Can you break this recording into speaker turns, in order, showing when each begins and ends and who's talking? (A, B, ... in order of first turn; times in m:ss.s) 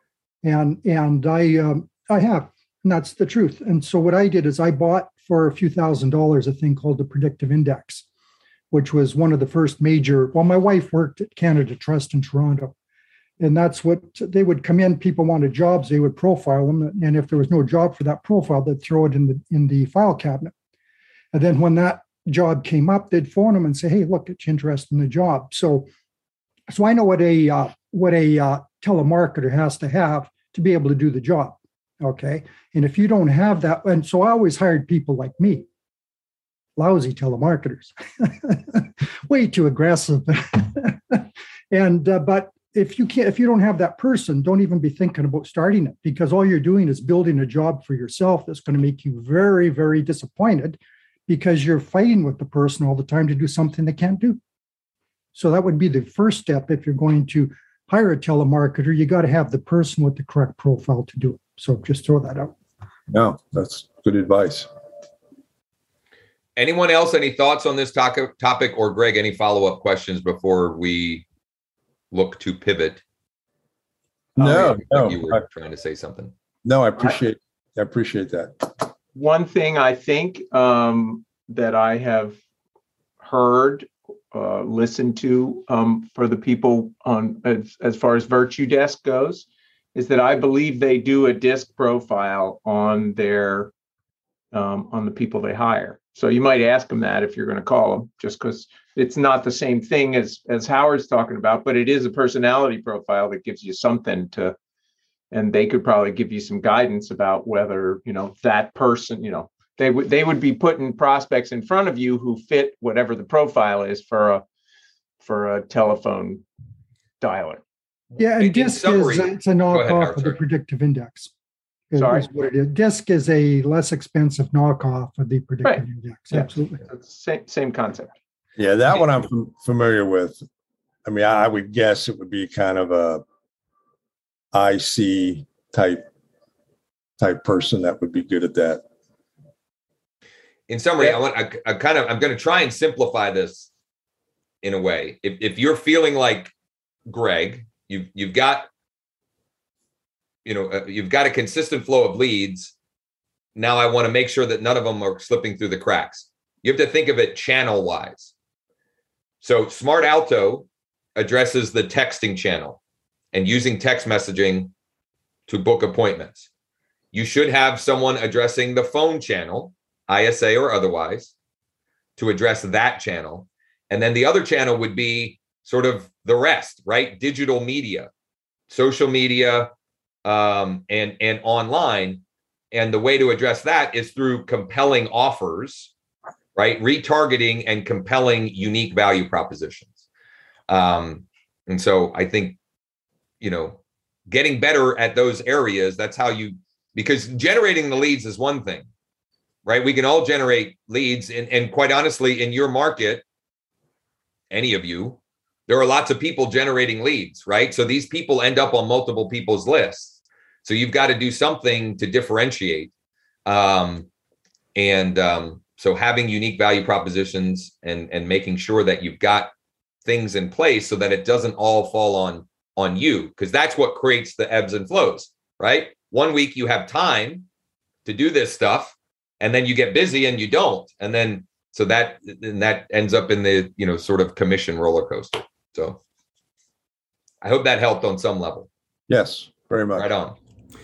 0:00.4-0:08.0 A
0:08.7-0:12.7 A
0:13.4-0:20.5 A
0:21.3-0:25.9 A
0:26.7-0:35.6 A
0:36.8-0:54.4 A
0:55.3-1:02.5 A
1:03.1-1:04.7 B
1:06.6-1:11.2 C
1:12.1-1:13.0 C
1:14.4-1:15.4 B
1:14.4-1:16.3 C
1:16.6-1:18.8 B
1:19.1-1:22.4 D
1:23.2-1:33.7 D
1:34.5-1:44.6 D
1:45.3-1:54.4 D
1:55.2-1:56.4 D
1:57.2-1:57.6 D
1:58.2-2:01.3 A
1:58.4-2:00.4 C
2:01.9-2:06.8 A
2:02.0-2:02.3 D
2:05.6-2:08.1 D
2:08.6-2:10.4 B
2:11.0-2:13.2 B
2:14.5-2:16.0 B
2:17.2-2:18.8 B
2:20.7-2:23.7 C
2:24.6-2:26.5 C
2:27.1-2:28.7 C
2:30.4-2:32.8 C
2:33.6-2:38.3 C
2:39.4-2:42.8 C
2:43.3-2:44.7 C
2:45.5-2:46.5 C
2:47.1-2:51.3 C
2:52.2-2:58.1 C
2:58.7-2:59.7 C
3:00.2-3:02.2 C
3:02.7-3:05.9 C
3:06.5-3:10.0 C
3:10.7-3:12.6 C
3:13.4-3:18.9 C
3:19.6-3:23.2 C
3:24.5-3:32.9 C
3:33.5-3:34.1 C
3:34.8-3:39.5 C
3:40.0-3:47.5 C
3:48.0-3:56.0 C
3:57.4-3:58.7 C
3:59.1-4:00.1 B
4:00.0-4:00.4 C